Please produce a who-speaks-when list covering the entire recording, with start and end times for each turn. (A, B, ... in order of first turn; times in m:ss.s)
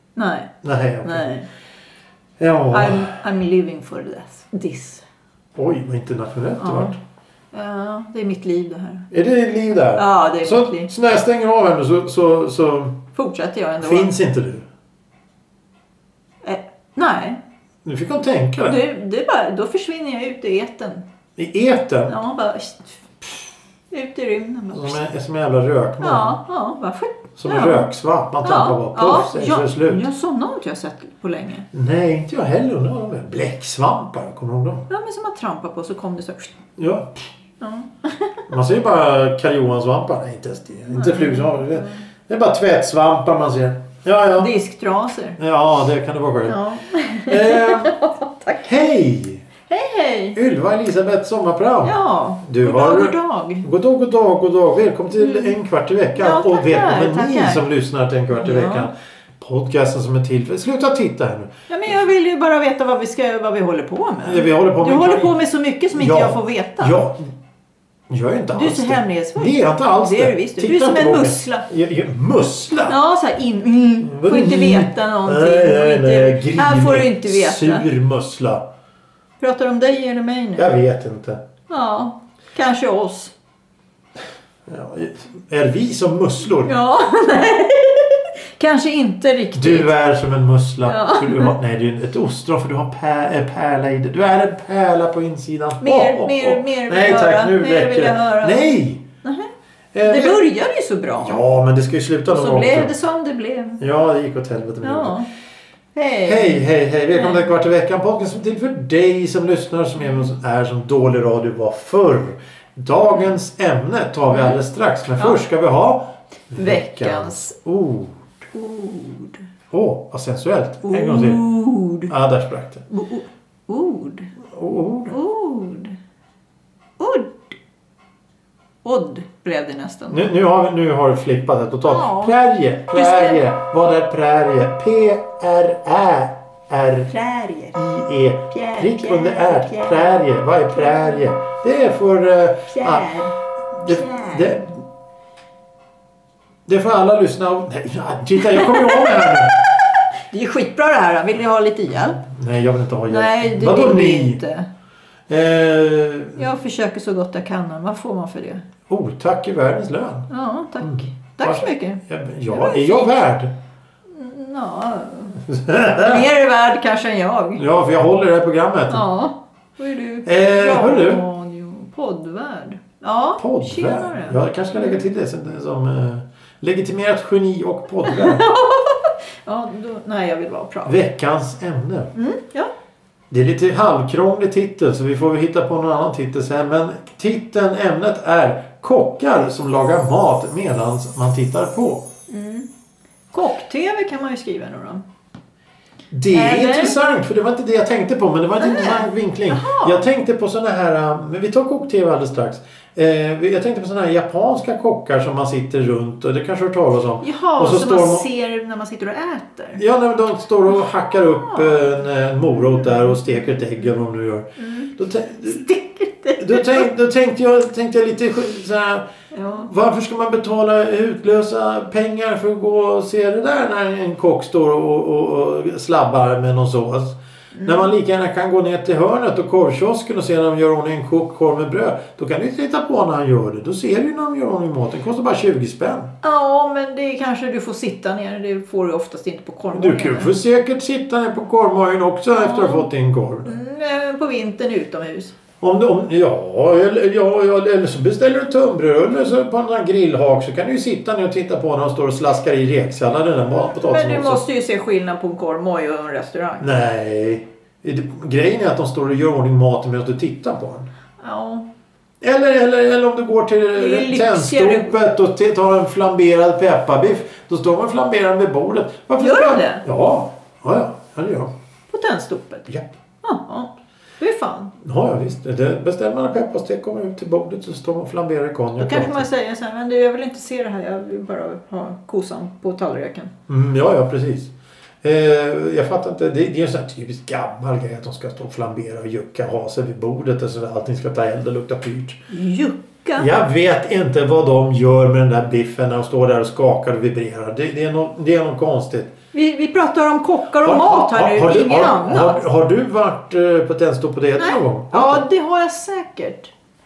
0:00.2-0:01.5 A
0:00.6-0:01.3 B
0:02.4-0:03.2 B
0:02.7-0:05.0 A
0:05.6-0:07.0 B
0:06.6-0:07.0 A
0:07.5-0:09.1 A
0:09.1-0:13.0 B
0:10.0-0:10.9 A
0:13.2-0:14.1 A
0:13.8-0:14.7 B
0:16.4-0:17.4 A
0:17.8-0:18.8 B
0:18.6-0:21.1 A
0:21.4-0:22.2 B
0:22.1-0:25.0 A
0:24.7-0:26.4 B
0:26.0-0:27.9 A
0:27.4-0:30.0 B
0:28.4-0:31.7 A
0:31.7-0:34.9 B
0:34.9-0:36.6 A
0:36.8-0:37.2 B
0:37.6-0:38.4 A
0:38.5-0:44.5 B
0:40.9-0:42.1 A
0:44.4-0:45.4 A
0:45.4-0:46.6 B
0:46.4-0:48.7 A
0:47.2-0:48.0 B
0:48.6-0:49.5 B
0:49.7-0:50.4 A
0:50.4-1:01.5 B
0:51.8-0:53.7 A
0:55.2-0:55.6 A
0:56.2-0:57.6 A
0:58.3-0:58.9 A
1:01.7-1:07.0 A
1:04.2-1:05.3 B
1:05.9-1:07.3 B
1:08.1-1:13.0 B
1:08.5-1:11.7 A
1:12.9-1:17.8 A
1:14.0-1:18.6 B
1:19.4-1:20.7 A
1:20.6-1:21.4 B
1:21.7-1:23.3 A
1:24.7-1:26.8 B
1:26.6-1:29.9 A
1:29.5-1:39.0 B
1:30.8-1:31.5 A
1:35.8-1:38.7 A
1:39.2-1:39.5 A
1:39.9-1:40.4 B
1:40.0-1:41.4 A
1:41.2-1:42.9 B
1:42.3-1:43.8 A
1:43.8-1:45.2 B
1:44.8-1:45.3 A
1:46.0-1:47.5 A
1:46.2-1:58.2 B
1:56.6-1:57.5 A
1:58.5-1:59.4 A
1:59.7-2:01.5 B
2:00.8-2:02.1 A
2:02.1-2:02.8 B
2:02.9-2:04.3 A
2:04.5-2:05.2 B
2:05.1-2:06.0 A
2:07.0-2:07.6 A
2:08.8-2:10.3 A
2:10.1-2:17.1 B
2:11.9-2:12.4 A
2:12.9-2:13.5 A
2:17.1-2:17.8 A
2:17.8-2:23.2 B
2:18.5-2:20.2 A
2:20.7-2:21.3 A
2:22.7-2:24.5 A
2:23.8-2:24.8 B
2:26.7-2:29.6 B
2:28.4-2:32.2 A
2:32.2-2:34.4 B
2:33.1-2:34.7 A
2:35.3-2:36.4 B
2:36.4-2:38.7 A
2:38.9-2:40.3 B
2:40.3-2:43.2 A
2:40.8-2:43.5 B
2:44.1-2:47.6 A
2:45.5-2:46.3 B
2:47.6-2:49.1 B
2:48.9-2:55.0 A
2:50.2-2:51.2 B
2:53.4-2:58.4 B
2:58.1-3:01.0 A
3:00.9-3:02.1 B
3:02.2-3:02.7 A
3:03.3-3:12.1 B
3:12.3-3:12.7 A
3:13.3-3:15.0 A
3:16.1-3:28.3 B
3:16.3-3:17.0 A
3:18.6-3:20.0 A
3:27.2-3:29.8 A
3:29.8-3:35.7 B
3:31.1-3:31.8 A
3:34.6-3:34.9 A
3:35.5-3:36.9 A
3:36.4-3:56.1 B
3:39.3-3:39.7 A
3:47.5-3:47.9 A
3:56.2-4:00.3 A
3:59.7-4:03.6 B
4:02.4-4:02.9 A
4:03.4-4:05.3 A
4:05.6-4:14.4 B
4:13.7-4:16.7 A
4:16.6-4:20.9 B
4:21.2-4:21.7 A
4:22.2-4:31.5 B
4:23.8-4:24.9 A
4:29.2-4:29.8 A
4:31.9-4:32.7 A
4:33.2-4:34.7 A
4:34.8-4:39.3 B
4:38.8-4:43.3 A
4:43.5-4:44.5 B
4:45.0-4:52.2 B
4:52.3-4:53.3 A
4:53.2-4:59.2 B
4:59.3-5:02.4 A
5:00.6-5:05.2 B
5:04.4-5:06.5 A